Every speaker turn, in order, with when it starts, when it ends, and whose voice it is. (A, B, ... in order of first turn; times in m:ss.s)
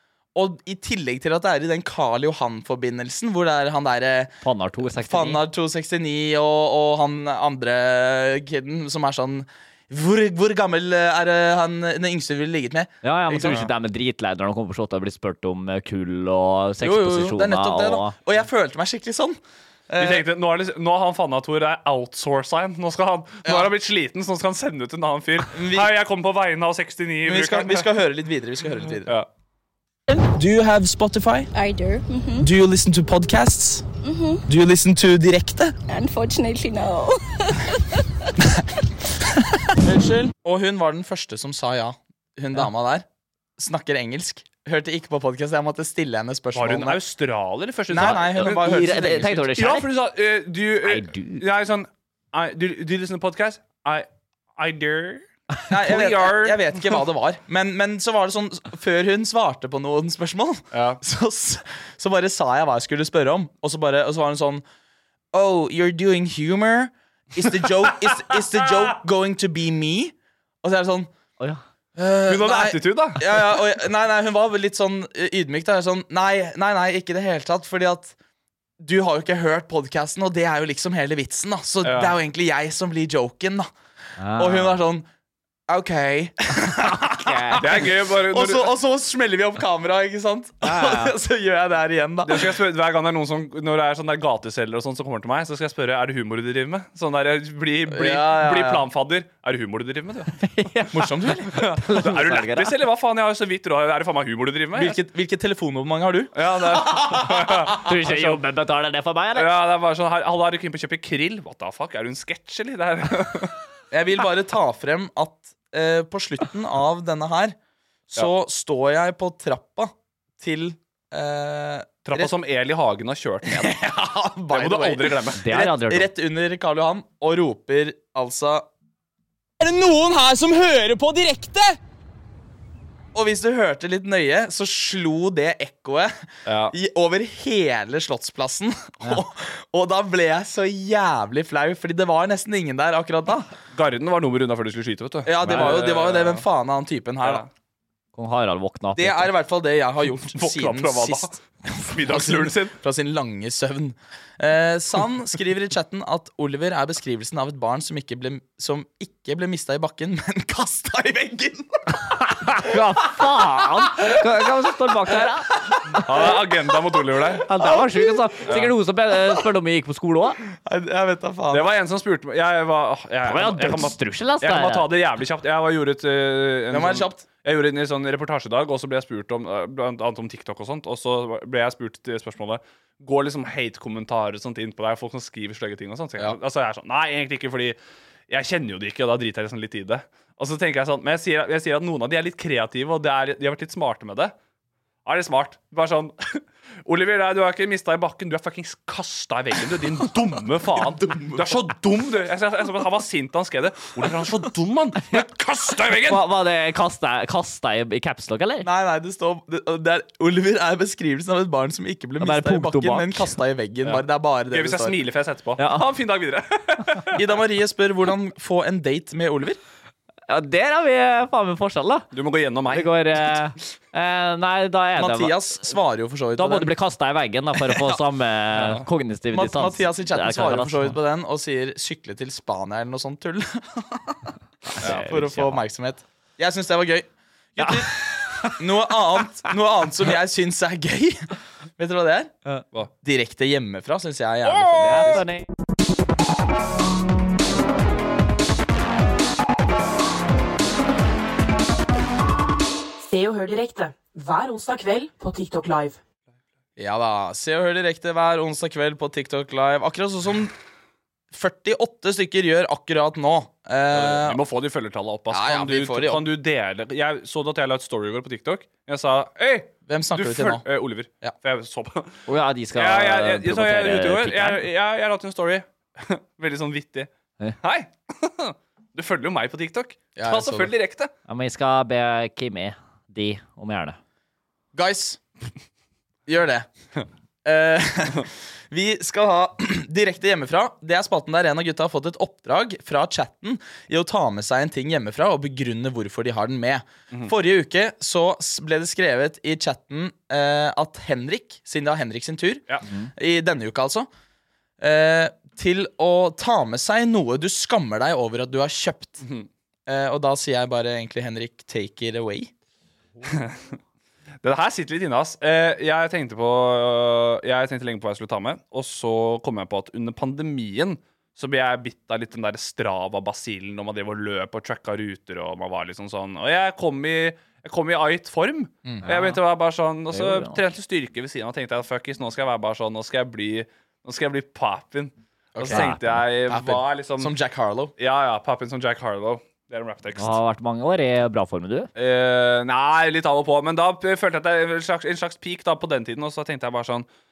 0:00.4-0:13.7 A
0:04.4-0:05.4 B
0:13.0-0:18.2 B
0:13.4-0:13.7 C
0:16.8-0:19.4 A
0:19.9-0:20.2 A
0:20.0-0:27.9 C
0:23.4-0:23.7 A
0:25.5-0:25.9 A
0:27.2-0:29.2 A
0:30.1-0:31.5 A
0:31.5-0:32.5 D
0:32.4-0:33.9 A
0:34.0-0:34.4 D
0:34.5-0:35.8 A
0:35.9-0:38.3 D
0:39.7-0:43.1 A
0:43.6-0:47.0 A
0:46.5-0:49.0 C
0:47.9-0:49.5 A
0:47.9-0:49.9 B
0:49.5-0:57.0 C
0:50.8-0:51.4 B
0:55.7-1:04.6 A
1:00.7-1:01.0 C
1:05.3-1:11.1 A
1:08.3-1:08.8 C
1:12.0-1:18.2 A
1:12.3-1:13.6 C
1:18.8-1:23.7 A
1:21.8-1:22.2 C
1:24.2-1:24.8 B
1:24.4-1:25.1 A
1:25.7-1:32.6 A
1:27.1-1:27.9 B
1:27.6-1:28.7 C
1:30.6-1:31.2 B
1:32.2-1:40.4 C
1:37.9-1:38.9 A
1:40.4-1:42.8 B
1:40.9-1:41.6 A
1:41.5-1:45.0 C
1:44.8-1:46.3 A
1:46.4-1:48.4 C
1:46.8-1:47.3 A
1:47.7-1:49.5 B
1:49.4-1:53.6 C
1:53.9-1:57.6 A
1:58.1-2:02.3 A
2:02.1-2:03.8 C
2:03.4-2:08.7 A
2:04.5-2:05.4 C
2:05.4-2:06.1 B
2:09.6-2:11.8 A
2:13.1-2:23.5 A
2:16.5-2:16.8 C
2:23.7-2:26.4 C
2:25.2-2:27.4 A
2:25.4-2:25.8 B
2:27.2-2:27.5 C
2:28.2-2:29.3 B
2:29.0-2:42.6 A
2:30.3-2:32.8 C
2:42.4-2:46.3 B
2:46.0-2:47.5 C
2:47.4-2:50.4 B
2:47.6-2:48.1 A
2:48.4-2:48.8 C
2:50.6-2:51.7 A
2:51.5-3:07.8 C
2:53.3-2:54.9 B
2:56.7-2:57.2 A
3:08.3-3:14.3 C
3:15.0-3:26.2 C
3:20.8-3:21.6 A
3:26.0-3:28.7 B
3:28.6-3:35.0 A
3:32.2-3:33.3 B
3:33.8-3:37.2 C
3:35.6-3:35.9 B
3:37.1-3:39.6 A
3:40.3-3:42.1 B
3:42.1-3:43.4 C
3:42.7-3:45.6 B
3:45.0-3:46.7 A
3:46.4-3:51.0 B
3:47.7-3:48.0 A
3:48.5-3:48.9 C
3:49.3-3:54.2 A
3:54.7-3:55.6 B
3:54.8-3:57.9 A
3:54.8-3:55.1 C
3:57.6-3:58.6 B
3:58.6-4:01.2 A
4:01.8-4:02.3 A
4:03.0-4:05.3 A
4:04.5-4:05.5 B
4:04.8-4:05.2 C
4:13.0-4:16.0 E
4:16.8-4:20.6 A
4:21.3-4:24.4 A
4:23.9-4:37.1 C
4:25.3-4:26.3 A
4:29.9-4:30.6 A
4:32.3-4:34.6 B
4:37.6-4:41.1 C
4:40.2-4:40.8 A
4:41.3-4:44.0 B
4:44.7-4:45.2 A
4:46.3-4:46.7 A
4:47.4-5:02.6 A
5:03.2-5:04.1 A
5:04.8-5:09.2 A
5:09.2-5:09.5 C
5:09.9-5:12.5 A
5:13.3-5:13.8 C
5:14.4-5:37.3 C
5:29.0-5:29.4 B
5:30.1-5:30.6 B
5:35.5-5:35.9 A
5:35.6-5:36.2 B
5:36.5-5:37.9 A
5:38.0-5:40.4 C
5:40.2-5:41.9 B
5:42.0-5:47.1 C